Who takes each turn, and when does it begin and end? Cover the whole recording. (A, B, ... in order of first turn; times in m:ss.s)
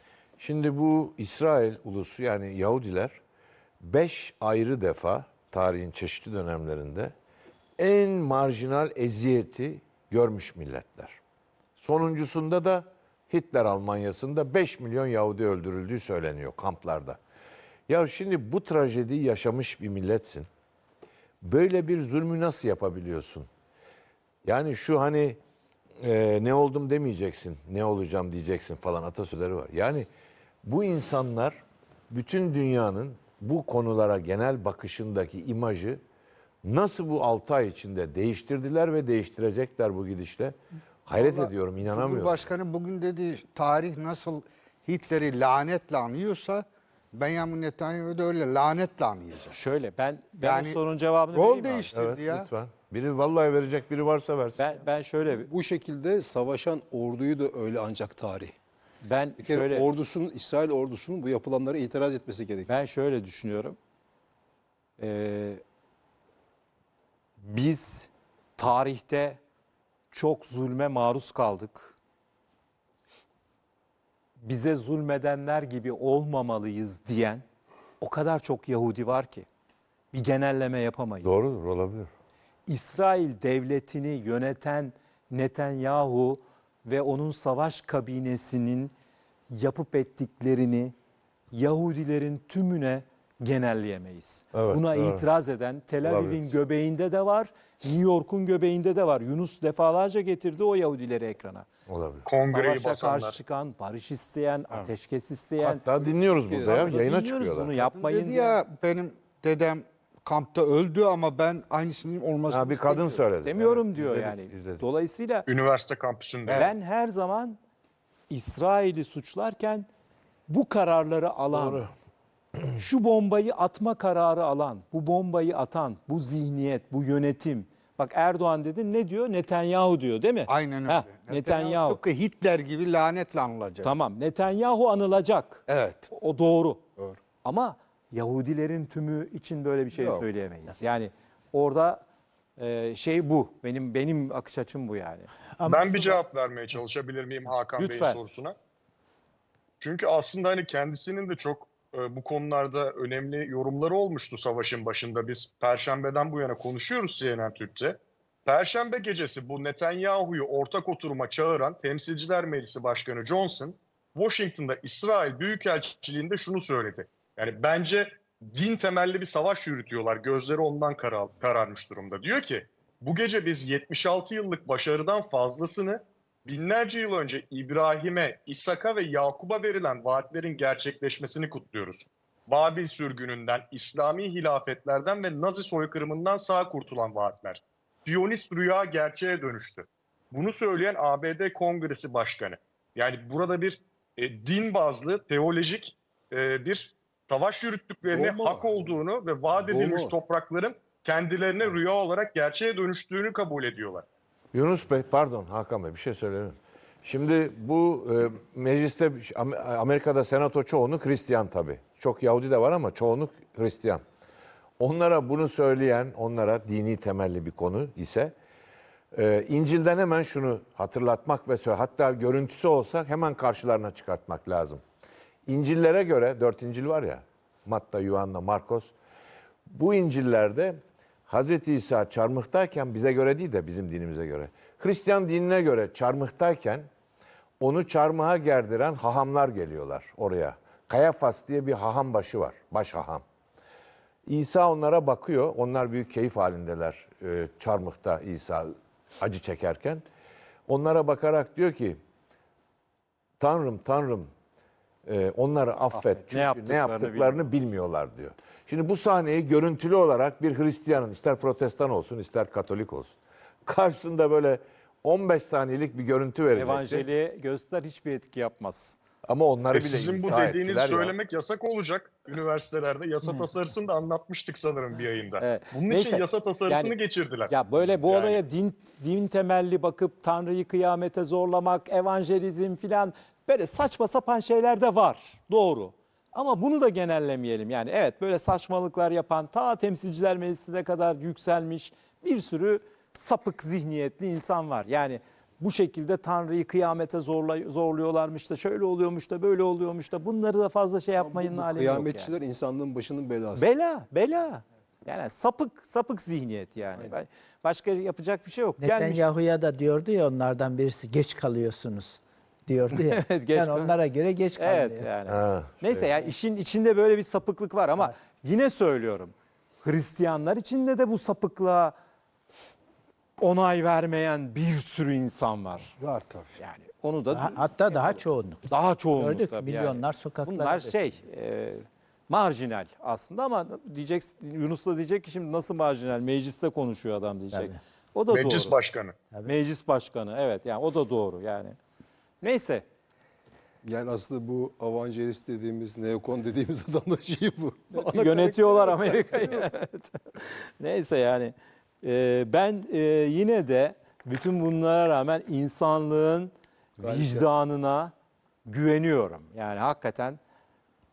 0:00.4-0:03.2 A
0:03.8-0:07.1 A
0:07.8-0:11.2 A
0:11.8-0:17.2 A
0:17.9-0:20.5 A
0:21.4-0:23.5 A
0:24.4-0:25.4 A
0:26.0-0:30.1 A
0:30.6-0:31.6 A
0:32.1-0:36.0 A
0:36.6-0:42.4 A
0:41.1-0:49.6 B
0:49.5-0:51.9 C
0:50.4-0:50.8 B
0:51.3-0:52.4 B
0:51.9-0:54.6 A
0:54.6-0:55.5 C
0:55.3-0:58.5 D
0:59.0-0:59.9 C
0:59.4-1:02.7 D
1:02.7-1:03.8 C
1:05.0-1:05.6 C
1:07.4-1:09.4 C
1:10.1-1:11.9 C
1:14.4-1:17.4 C
1:18.0-1:19.4 C
1:20.1-1:21.5 C
1:21.2-1:22.1 A
1:22.7-1:28.9 C
1:29.5-1:30.9 C
1:31.5-1:41.7 C
1:34.5-1:35.2 A
1:36.0-1:36.5 A
1:41.9-1:42.2 A
1:42.2-1:43.4 E
1:42.4-1:45.8 C
1:45.6-1:47.7 A
1:46.5-1:47.0 D
1:46.7-1:48.6 C
1:47.8-1:53.2 B
1:52.5-1:54.8 A
1:53.4-1:55.4 C
1:55.5-1:56.7 E
1:56.5-1:56.7 B
1:56.5-1:57.6 C
1:58.3-1:59.9 C
2:00.5-2:01.8 C
2:01.5-2:01.9 A
2:02.8-2:12.0 C
2:10.5-2:13.9 B
2:13.8-2:16.8 C
2:15.7-2:16.1 B
2:17.4-2:22.0 C
2:19.9-2:20.2 B
2:22.6-2:25.3 C
2:25.6-2:26.2 F
2:25.6-2:28.5 E
2:27.8-2:28.2 C
2:29.8-3:24.0 E
3:18.0-3:19.0 D
3:19.5-3:20.2 D
3:24.5-3:34.0 A
3:34.8-3:38.3 A
3:39.1-3:44.8 A
3:45.4-3:48.9 A
3:49.7-3:56.9 A
3:57.6-4:03.2 A
4:04.2-4:10.0 A
4:10.7-4:12.0 A
4:13.4-4:14.3 A
4:15.0-4:27.1 A
4:15.9-4:17.4 C
4:26.5-4:29.0 C
4:29.2-4:31.1 A
4:29.7-4:37.5 E
4:35.4-4:37.0 C
4:37.5-5:02.3 C
4:38.0-4:38.4 E
5:01.2-5:03.7 D
5:03.6-5:09.2 C
5:08.8-5:15.1 F
5:12.9-5:13.9 C
5:14.6-5:21.9 C
5:15.2-5:16.1 A
5:23.4-5:25.9 C
5:26.0-5:26.5 B
5:26.6-5:38.7 C
5:27.3-5:31.0 F
5:37.5-5:37.8 F
5:38.3-5:39.1 E
5:39.4-5:41.8 C
5:42.4-5:42.8 C
5:43.8-5:49.7 D
5:47.9-5:58.1 C
5:57.0-5:57.4 D
5:58.6-6:00.4 C